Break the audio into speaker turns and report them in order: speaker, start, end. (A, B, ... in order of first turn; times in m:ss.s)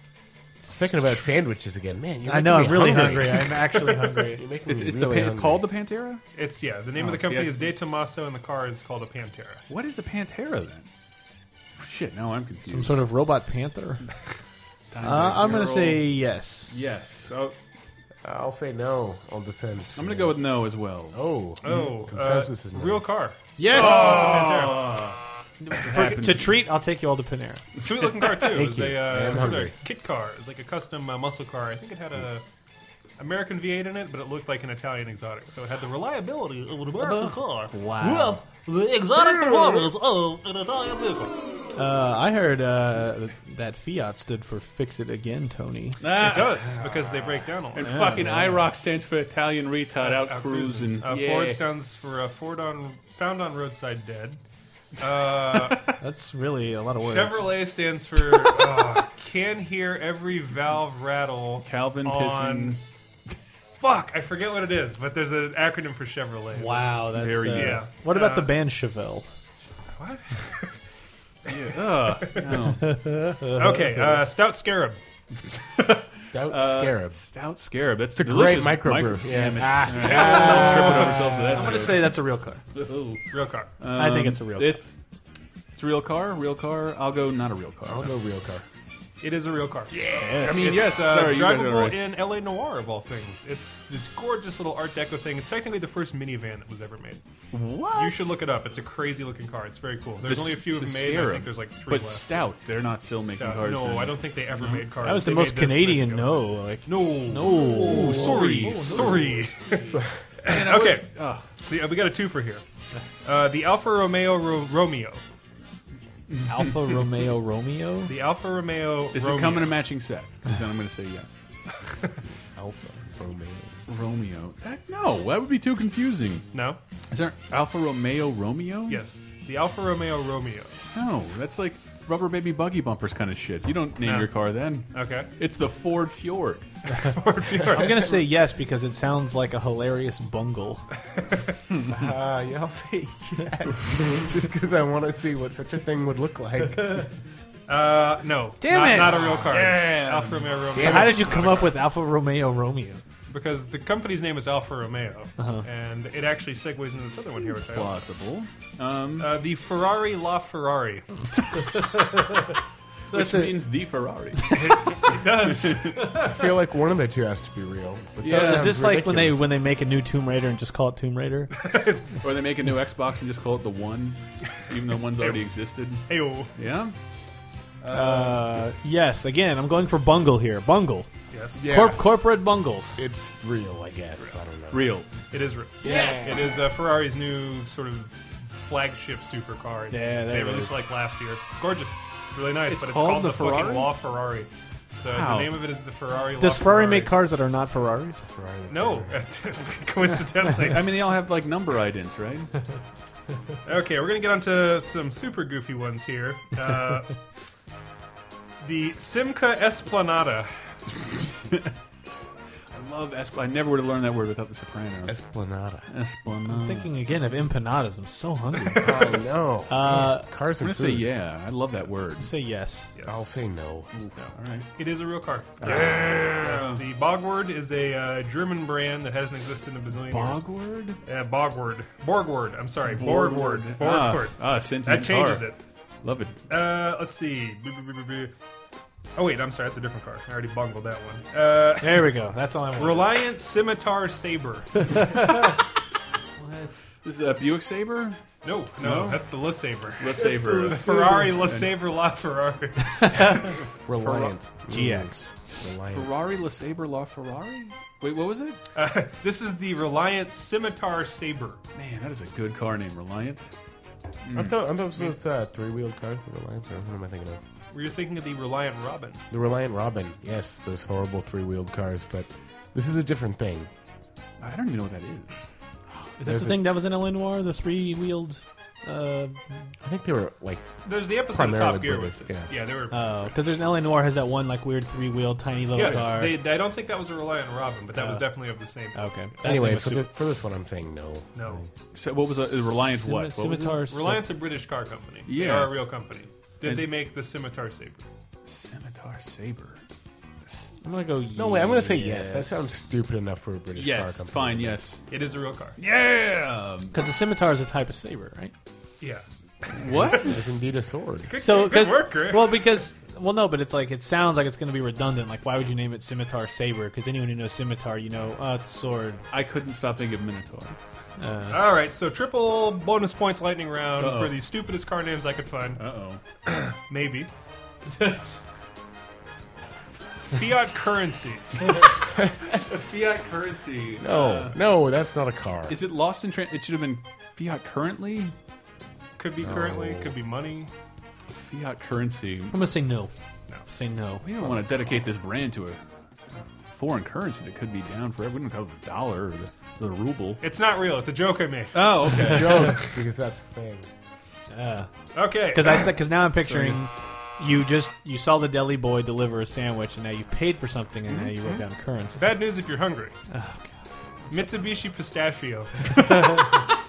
0:00.7-0:03.6 A
0:02.3-0:04.4 B
0:03.7-0:04.3 C
0:04.4-0:05.6 A
0:04.7-0:06.2 D
0:06.4-0:09.6 C
0:07.0-0:07.7 D
0:09.7-0:10.9 D
0:11.8-0:13.1 D
0:12.7-0:14.0 B
0:14.9-0:16.2 D
0:15.0-0:16.8 B
0:16.7-0:17.5 D
0:18.2-0:20.6 A
0:20.0-0:21.9 D
0:21.1-0:23.1 A
0:21.6-0:25.0 C
0:23.6-0:24.4 B
0:23.7-0:25.2 D
0:25.6-0:27.6 B
0:25.7-0:26.6 D
0:27.8-0:32.4 C
0:28.5-0:29.8 A
0:33.2-0:41.3 C
0:37.0-0:38.4 B
0:39.2-0:39.8 D
0:41.8-0:46.0 B
0:46.0-0:47.2 D
0:46.2-0:48.1 C
0:47.7-0:51.6 D
0:47.8-0:48.7 B
0:50.0-0:54.4 C
0:55.0-0:55.9 C
0:55.5-0:55.9 D
0:56.0-0:57.5 B
0:57.0-1:02.8 C
1:01.6-1:02.8 D
1:03.8-1:08.5 C
1:06.5-1:09.3 B
1:07.1-1:07.9 D
1:10.0-1:10.7 C
1:11.5-1:13.1 D
1:12.2-1:12.5 C
1:12.8-1:14.2 B
1:13.6-1:15.0 C
1:16.3-1:17.2 A
1:16.5-1:22.2 D
1:18.2-1:20.8 A
1:20.0-1:22.6 B
1:20.0-1:21.3 C
1:22.7-1:23.3 D
1:23.3-1:23.7 C
1:23.8-1:25.0 D
1:24.0-1:24.8 B
1:25.8-1:28.1 D
1:27.9-1:28.6 A
1:29.2-1:37.2 C
1:30.0-1:32.0 D
1:30.2-1:30.6 B
1:37.5-1:38.3 D
1:37.9-1:42.4 C
1:40.2-1:44.9 D
1:43.2-1:49.9 C
1:45.0-1:49.9 B
1:47.5-1:49.5 D
1:50.4-1:51.1 C
1:50.4-1:51.5 D
1:51.6-1:52.6 C
1:53.2-1:55.2 C
1:56.3-1:57.0 D
1:56.5-1:58.1 B
1:58.1-1:59.8 C
1:59.1-2:01.4 D
2:02.6-2:03.8 A
2:03.9-2:06.5 D
2:06.5-2:06.8 C
2:07.1-2:09.0 D
2:08.9-2:10.8 C
2:10.9-2:16.7 D
2:14.0-2:14.4 C
2:14.9-2:15.3 C
2:17.0-2:18.2 C
2:17.7-2:20.8 B
2:21.9-2:27.1 A
2:27.7-2:31.7 C
2:28.6-2:29.4 B
2:28.8-2:31.6 D
2:30.7-2:31.3 A
2:30.8-2:33.0 B
2:33.3-2:38.1 C
2:35.4-2:35.6 B
2:37.6-2:39.4 D
2:39.2-2:41.0 C
2:41.7-2:42.2 B
2:43.1-2:43.6 B
2:43.1-2:46.2 D
2:44.5-2:46.2 C
2:46.1-2:49.5 A
2:48.2-2:48.8 D
2:48.2-2:51.5 B
2:51.6-2:52.0 C
2:52.2-2:57.0 D
2:55.2-2:55.5 C
2:56.1-2:56.5 C
2:57.8-2:58.4 D
2:57.9-3:01.1 B
3:01.3-3:01.7 C
3:01.6-3:02.1 A
3:01.6-3:03.0 B
3:03.0-3:05.0 A
3:04.7-3:05.1 D
3:05.3-3:17.2 C
3:05.8-3:06.5 A
3:05.9-3:06.2 B
3:09.9-3:10.8 B
3:12.7-3:13.9 D
3:15.0-3:15.7 D
3:16.4-3:18.2 B
3:18.3-3:19.2 A
3:18.7-3:20.9 C
3:20.6-3:22.5 D
3:23.6-3:27.2 C
3:28.6-3:30.5 C
3:32.7-3:35.2 D
3:35.1-3:35.9 A
3:35.9-3:36.9 D
3:36.5-3:39.0 B
3:38.8-3:41.1 A
3:39.7-3:40.3 B
3:40.6-3:42.3 D
3:42.2-3:42.9 B
3:43.0-3:43.2 C
3:43.1-3:43.9 A
3:43.9-3:44.7 D
3:44.2-3:50.4 C
3:45.6-3:46.8 D
3:45.6-3:45.9 A
3:50.0-3:51.0 D
3:51.0-3:55.6 C
3:52.8-3:55.5 D
3:56.0-3:56.4 D
3:56.5-3:58.3 C
3:59.2-4:02.1 C
4:01.8-4:03.2 B
4:02.8-4:05.2 C
4:06.4-4:06.8 B
4:07.0-4:08.2 D
4:08.4-4:13.5 C
4:08.8-4:09.3 D
4:10.0-4:11.8 D
4:13.1-4:13.4 B
4:13.9-4:16.1 A
4:13.9-4:14.4 D
4:14.7-4:15.3 B
4:15.9-4:18.6 D
4:18.8-4:21.6 C
4:21.8-4:23.5 D
4:24.2-4:24.6 D
4:24.3-4:27.4 A
4:27.7-4:29.2 C
4:29.3-4:33.7 A
4:34.4-4:35.3 D
4:36.2-4:39.4 B
4:36.2-4:36.7 A
4:39.8-4:42.5 A
4:40.8-4:43.3 C
4:42.9-4:46.4 B
4:45.7-4:49.5 C
4:48.0-4:48.3 B
4:48.9-4:50.1 B
4:49.4-4:51.7 A
4:51.4-4:51.6 C
4:51.9-4:53.9 D
4:52.7-4:54.2 B
4:53.9-4:58.0 C
4:55.3-4:55.8 D
4:58.4-4:59.8 D
5:00.8-5:02.7 B
5:01.4-5:04.8 A
5:03.8-5:05.0 D
5:05.1-5:05.8 C
5:05.8-5:07.0 D
5:06.9-5:08.5 B
5:09.7-5:10.5 D
5:09.8-5:10.3 C
5:10.0-5:11.3 A
5:11.3-5:12.7 C
5:11.4-5:19.2 B
5:19.3-5:20.8 D
5:21.2-5:21.6 B
5:21.5-5:25.8 C
5:24.0-5:24.4 D
5:25.8-5:26.2 D
5:26.9-5:27.3 C
5:30.3-5:31.7 C
5:32.5-5:34.6 D
5:34.0-5:35.8 A
5:35.7-5:38.3 D
5:39.2-5:40.7 C
5:39.4-5:40.2 A
5:41.3-5:42.6 D
5:42.5-5:43.1 B
5:43.7-5:44.2 B
5:44.2-5:45.8 D
5:46.7-5:50.4 D
5:50.4-5:52.4 C
5:51.7-5:52.9 D
5:52.2-5:53.9 A
5:54.5-5:54.9 B
5:55.2-5:55.9 C
5:55.4-6:02.3 B
5:56.4-5:56.8 D
6:01.1-6:01.6 D
6:02.2-6:03.2 C
6:03.3-6:03.7 B
6:04.3-6:06.0 C
6:05.9-6:06.6 D